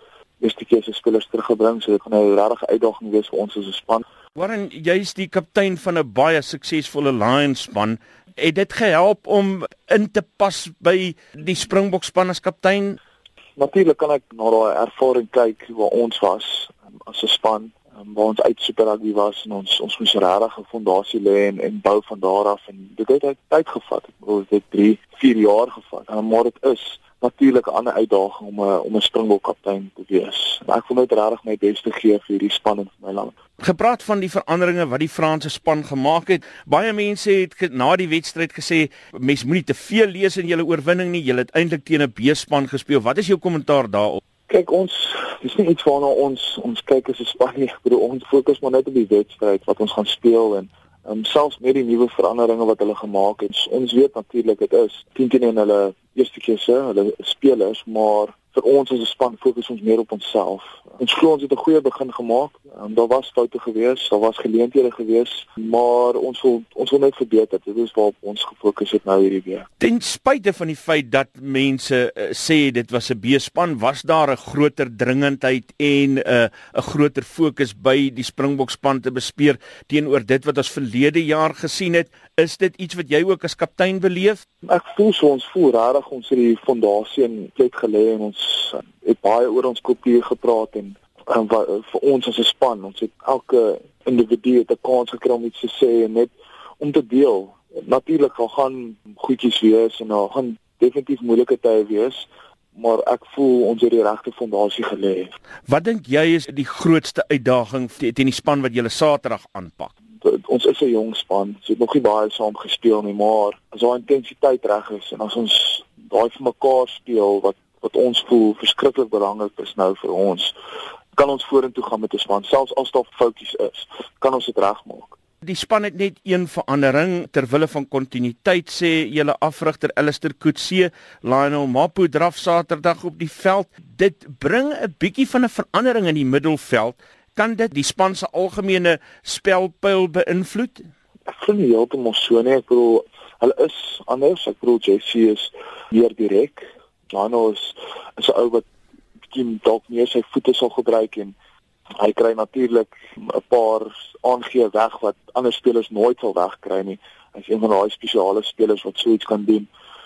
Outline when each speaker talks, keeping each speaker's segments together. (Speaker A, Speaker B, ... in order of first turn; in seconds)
Speaker A: 0.4-4.0, 13.6-33.3, 44.5-69.7, 84.6-105.3, 110.2-120.5, 121.1-125.2, 141.3-148.7, 149.3-151.3, 152.0-159.7
Speaker B: 4.3-13.0, 33.6-44.2, 69.8-84.4, 105.7-109.9, 125.4-140.8